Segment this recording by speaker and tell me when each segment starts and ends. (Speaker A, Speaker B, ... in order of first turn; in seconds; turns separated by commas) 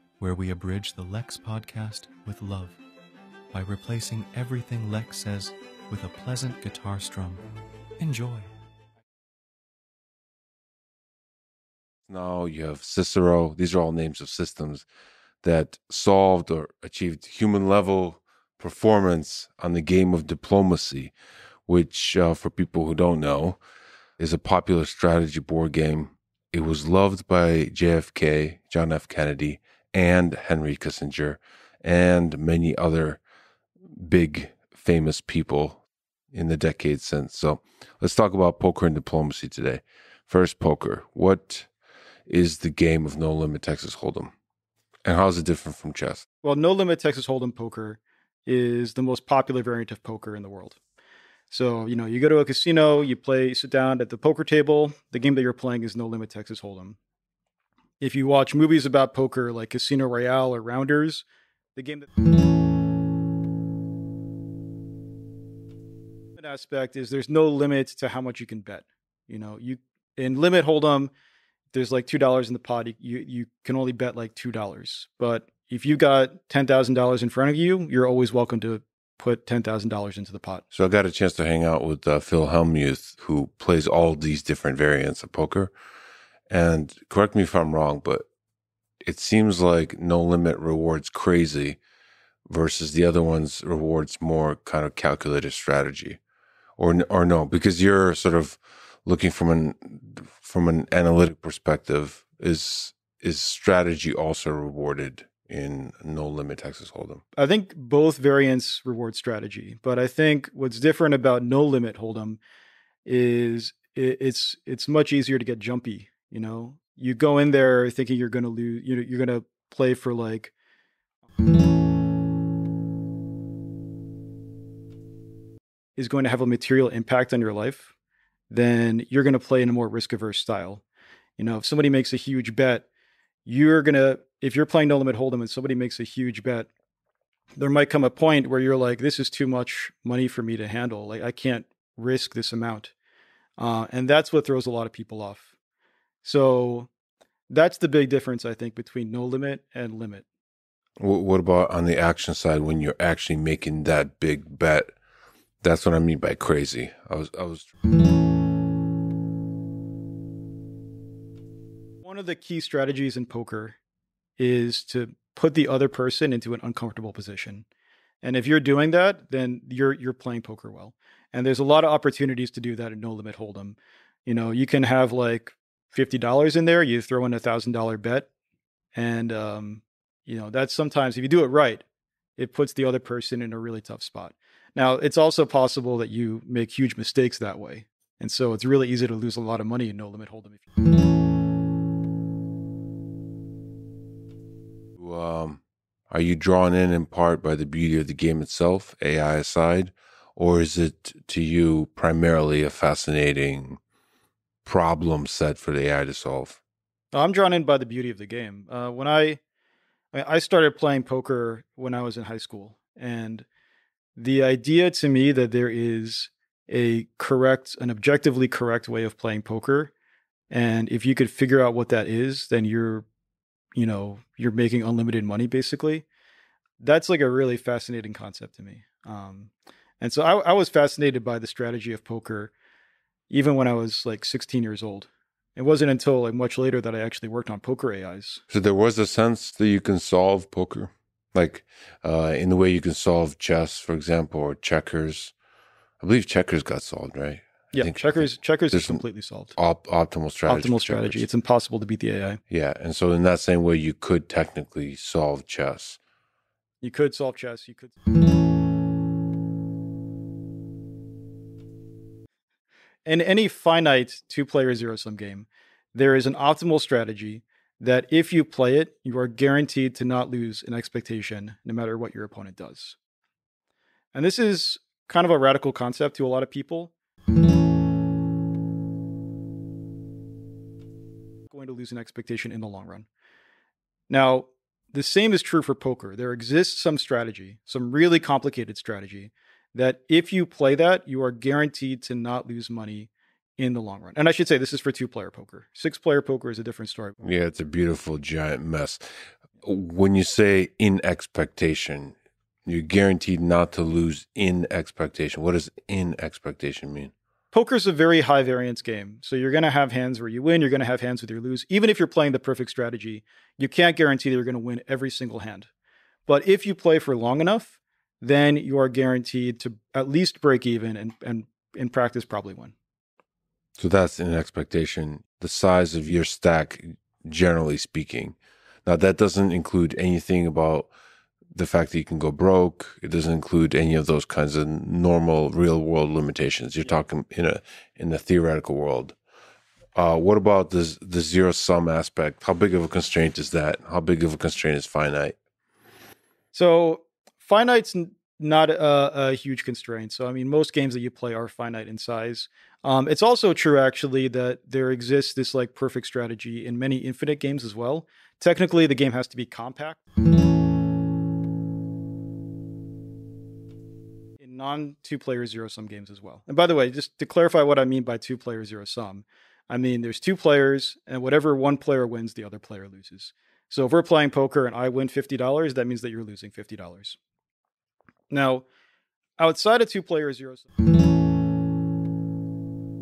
Speaker A: 0.2-2.8, Speaker A: 3.5-7.4, Speaker A: 8.0-8.5, Speaker B: 12.1-14.9, Speaker B: 15.4-21.1, Speaker B: 21.7-23.6, Speaker B: 24.2-33.2, Speaker B: 33.9-41.7, Speaker B: 42.3-44.3, Speaker B: 45.0-46.2, Speaker C: 46.4-50.8, Speaker C: 51.5-57.0, Speaker C: 58.0-61.2, Speaker C: 61.8-62.1, Speaker C: 66.4-71.1, Speaker C: 71.7-80.7, Speaker B: 80.7-85.7, Speaker B: 86.5-88.3, Speaker B: 89.0-91.8, Speaker B: 92.5-96.2, Speaker B: 96.8-107.2, Speaker C: 107.4-112.4, Speaker C: 113.1-120.5, Speaker C: 126.0-127.9, Speaker C: 128.5-130.8, Speaker C: 131.4-132.9, Speaker C: 133.5-136.7, Speaker C: 137.6-142.9, Speaker C: 143.6-145.5, Speaker C: 146.2-146.9, Speaker C: 147.5-150.2, Speaker B: 151.0-154.9, Speaker B: 155.6-157.7, Speaker C: 162.0-163.8, Speaker C: 164.4-167.7, Speaker C: 168.2-178.3, Speaker C: 178.9-181.8, Speaker C: 182.4-190.6, Speaker B: 195.0-203.8, Speaker B: 204.7-206.6, Speaker C: 207.1-209.4, Speaker C: 210.1-213.5, Speaker C: 214.2-219.9, Speaker C: 220.5-223.1, Speaker C: 223.8-226.1, Speaker C: 226.8-232.5, Speaker C: 233.3-238.4, Speaker B: 238.5-245.3, Speaker B: 246.0-249.0, Speaker C: 247.7-249.5, Speaker B: 249.6-251.3, Speaker C: 250.5-252.4, Speaker B: 252.5-256.0, Speaker C: 256.8-258.0, Speaker C: 263.1-273.0, Speaker C: 274.1-276.9, Speaker C: 281.5-283.1, Speaker C: 284.1-297.1, Speaker B: 297.2-299.0, Speaker B: 299.6-302.1, Speaker B: 302.7-307.1, Speaker C: 307.5-315.7, Speaker C: 316.3-322.7, Speaker B: 323.8-330.9, Speaker B: 331.5-339.2, Speaker B: 339.9-345.4, Speaker C: 346.5-360.0, Speaker C: 364.4-377.2, Speaker C: 378.3-378.7, Speaker C: 379.4-380.7